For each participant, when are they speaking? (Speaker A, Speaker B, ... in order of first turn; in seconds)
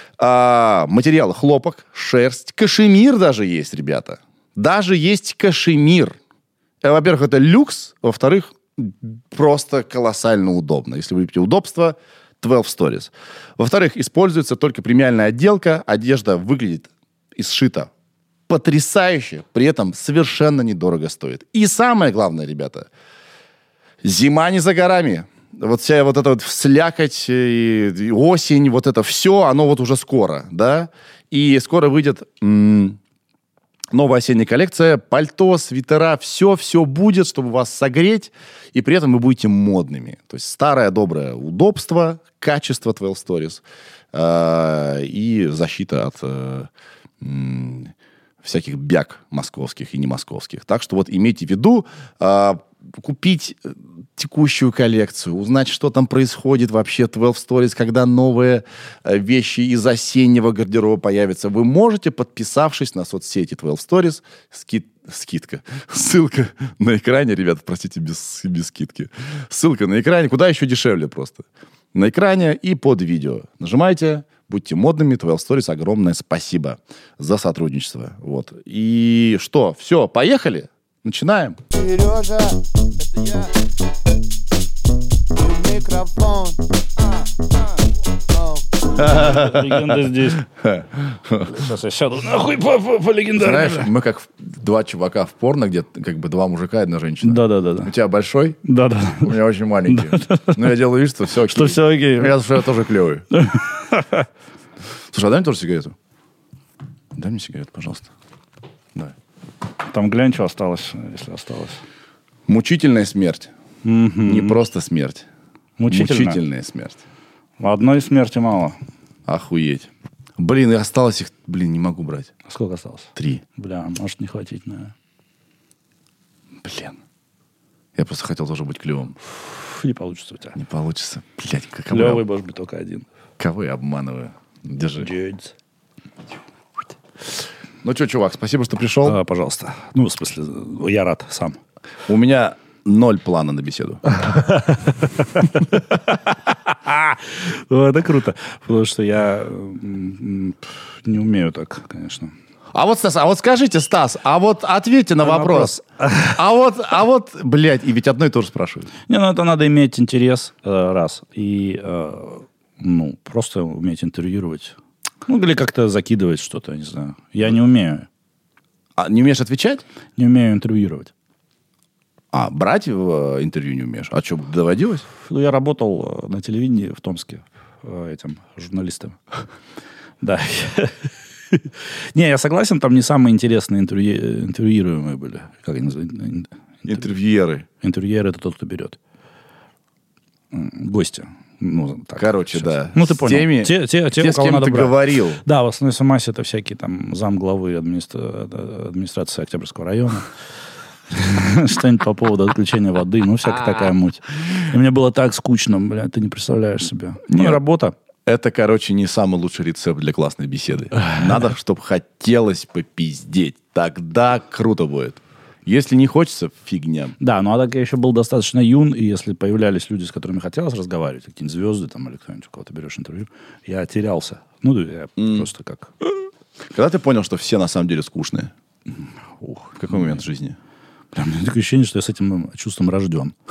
Speaker A: 0.2-6.2, 6.8-17.9, 18.5-22.9, 24.0-33.0, 33.9-46.7, 47.2-81.6, 89.0-91.6, 93.3-98.6, 99.2-103.2, 105.1-106.0, 107.1-108.1, 112.5-113.5, 114.2-115.2, 115.9-117.0, 119.3-122.3, 123.2-123.4, 126.6-127.0, 127.9-129.2, 130.5-132.2, 133.4-135.1, 137.8-139.2, 142.1-144.0, 152.7-155.7, 156.3-158.9, 169.0-169.8, 172.3-175.0, 186.8-187.7, 192.2-195.4, 207.3-207.6, 208.2-217.2, 225.2-225.5, 226.7-228.5, 229.8-230.6
Speaker B: 81.7-83.8, 85.3-89.2
Speaker C: 89.0-90.4, 91.4-93.9, 97.2-97.9, 98.6-99.3, 99.9-100.7, 101.4-102.3, 103.3-104.3, 109.8-111.8, 113.8-114.6, 115.8-116.4, 117.6-118.8, 122.4-124.9, 129.5-130.6, 131.9-133.1, 135.0-135.5, 139.0-141.6, 144.1-152.3, 155.2-156.4, 159.1-164.8, 165.3-168.1, 170.2-171.1, 175.2-179.2, 180.2-187.0, 187.8-189.0, 190.5-200.3, 201.1-207.9, 217.2-225.9, 229.4-230.2, 231.1-233.3